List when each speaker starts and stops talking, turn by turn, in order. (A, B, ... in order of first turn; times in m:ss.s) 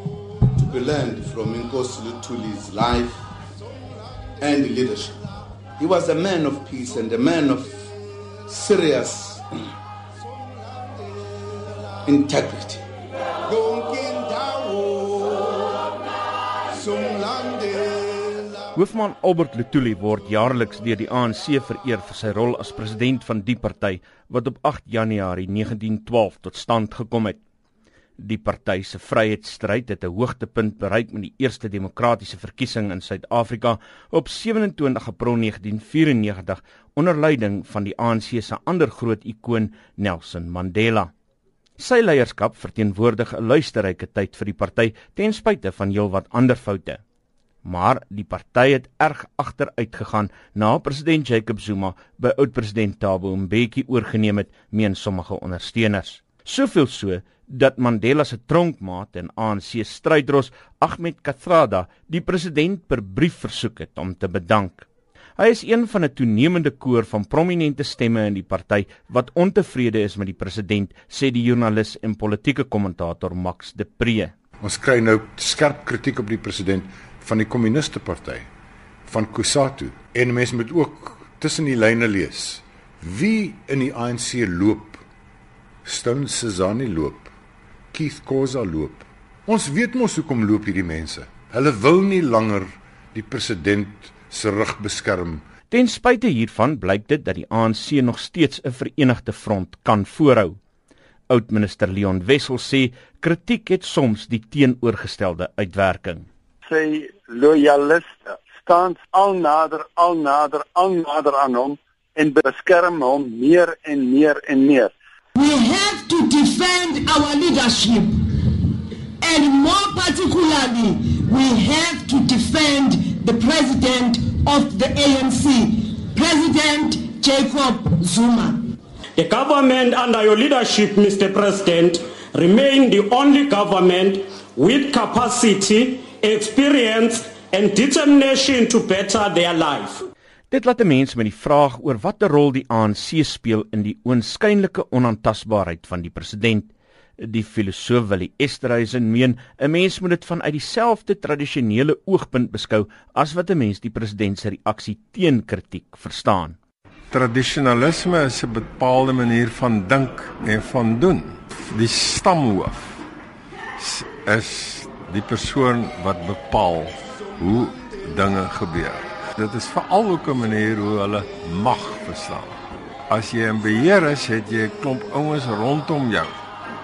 0:00.5-0:03.2 A
0:04.4-0:07.9 A
0:08.5-0:09.4 A
0:12.0-0:12.8 A
0:13.5-0:15.8 A
0:16.7-0:18.6 A
0:18.8-0:27.4 B
0:28.2-0:41.1 B
0:41.8-0:47.0 B
0:47.6-1:04.9 B
1:05.4-1:14.3 B
1:14.6-1:18.5 C
1:19.1-1:25.0 C
1:25.8-1:27.3 C
1:27.9-1:35.4 C
1:35.7-1:40.6 B
1:41.3-1:46.3 B
1:46.7-1:54.9 D
1:55.4-1:58.3 E
1:59.2-2:08.6 E
2:09.2-2:20.0 F
2:20.5-2:36.6 B
2:37.1-2:43.0 G
2:43.8-2:52.6 G
2:53.1-2:56.4 G